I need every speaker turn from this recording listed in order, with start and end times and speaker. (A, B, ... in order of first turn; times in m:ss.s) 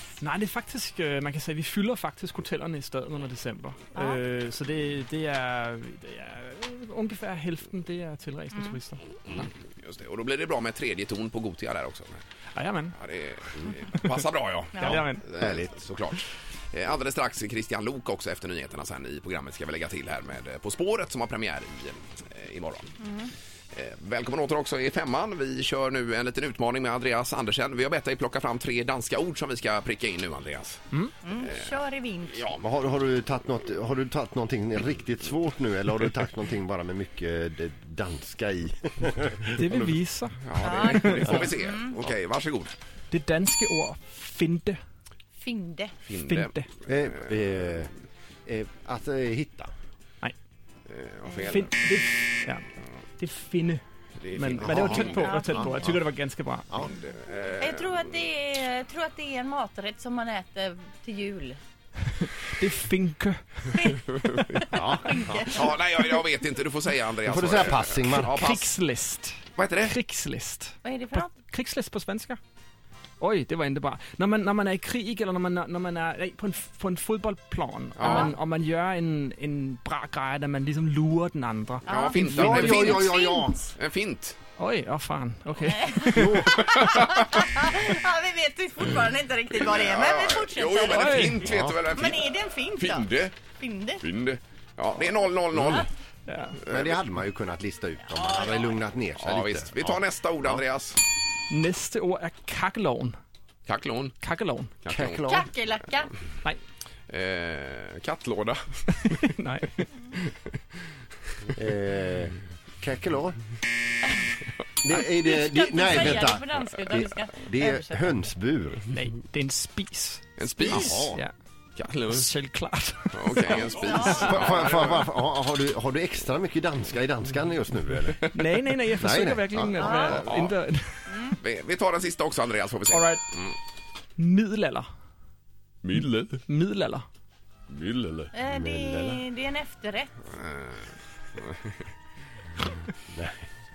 0:00.2-0:09.2 A
0:03.9-0:04.2 B
0:09.3-0:12.2 C
0:12.5-0:13.0 A
0:13.0-0:22.9 C
0:13.9-0:14.2 A
0:14.7-0:15.0 B
0:14.8-0:15.2 A
0:15.4-0:15.6 D
0:23.0-0:23.3 B
0:23.7-0:30.8 C
0:31.2-0:32.5 B
0:31.4-0:31.7 C
0:32.3-0:32.6 C
0:32.6-0:39.6 D
0:39.6-0:41.3 A
0:40.4-0:42.7 C
0:40.6-0:42.0 B
0:43.1-0:44.8 A
0:45.4-0:45.9 B
0:46.0-0:46.5 C
0:46.2-0:46.7 A
0:46.9-0:47.9 D
0:48.4-0:49.7 D
0:50.9-0:51.7 C
0:51.4-0:52.6 A
0:53.2-0:53.8 A
0:54.2-0:55.3 C
0:54.3-0:56.6 A
0:54.6-0:55.8 D
0:55.0-0:55.8 B
0:56.8-0:57.8 C
0:57.6-1:01.6 B
1:02.1-1:03.9 A
1:03.7-1:04.0 B
1:04.1-1:04.9 C
1:04.7-1:05.2 D
1:04.8-1:05.7 B
1:05.4-1:08.7 C
1:07.2-1:08.4 D
1:08.3-1:12.4 A
1:09.6-1:10.0 C
1:10.8-1:11.3 B
1:13.2-1:23.0 A
1:18.0-1:18.3 C
1:18.0-1:18.3 B
1:21.8-1:23.7 B
1:21.9-1:23.1 C
1:22.2-1:23.6 D
1:23.8-1:24.4 C
1:24.6-1:26.8 A
1:25.6-1:31.2 B
1:26.1-1:26.6 D
1:26.9-1:27.4 C
1:29.6-1:33.3 C
1:30.9-1:31.4 A
1:31.4-1:31.8 D
1:31.9-1:34.0 B
1:34.0-1:35.9 C
1:36.3-1:36.6 A
1:36.7-1:40.0 D
1:38.1-1:38.8 B
1:39.2-1:41.0 C
1:41.5-1:43.1 A
1:43.6-1:44.2 C
1:44.2-1:44.7 A
1:44.8-1:45.3 C
1:44.9-1:45.5 D
1:45.3-1:46.1 B
1:47.1-1:49.3 C
1:48.9-1:50.3 A
1:51.5-1:53.4 D
1:54.8-1:58.8 D
1:55.0-1:58.1 B
1:58.9-2:01.3 A
2:00.4-2:01.1 C
2:00.6-2:01.2 D
2:01.8-2:02.3 C
2:02.1-2:04.4 A
2:03.1-2:05.1 C
2:03.5-2:04.4 B
2:04.3-2:08.2 D
2:08.3-2:11.1 A
2:08.9-2:09.9 D
2:09.8-2:10.2 B
2:09.9-2:10.5 C
2:11.1-2:11.4 B
2:11.4-2:13.6 C
2:12.9-2:13.2 A
2:14.2-2:14.8 A
2:15.8-2:16.4 C
2:15.9-2:17.0 A
2:17.7-2:18.2 C
2:18.3-2:20.1 B
2:18.4-2:19.2 D
2:20.3-2:21.8 C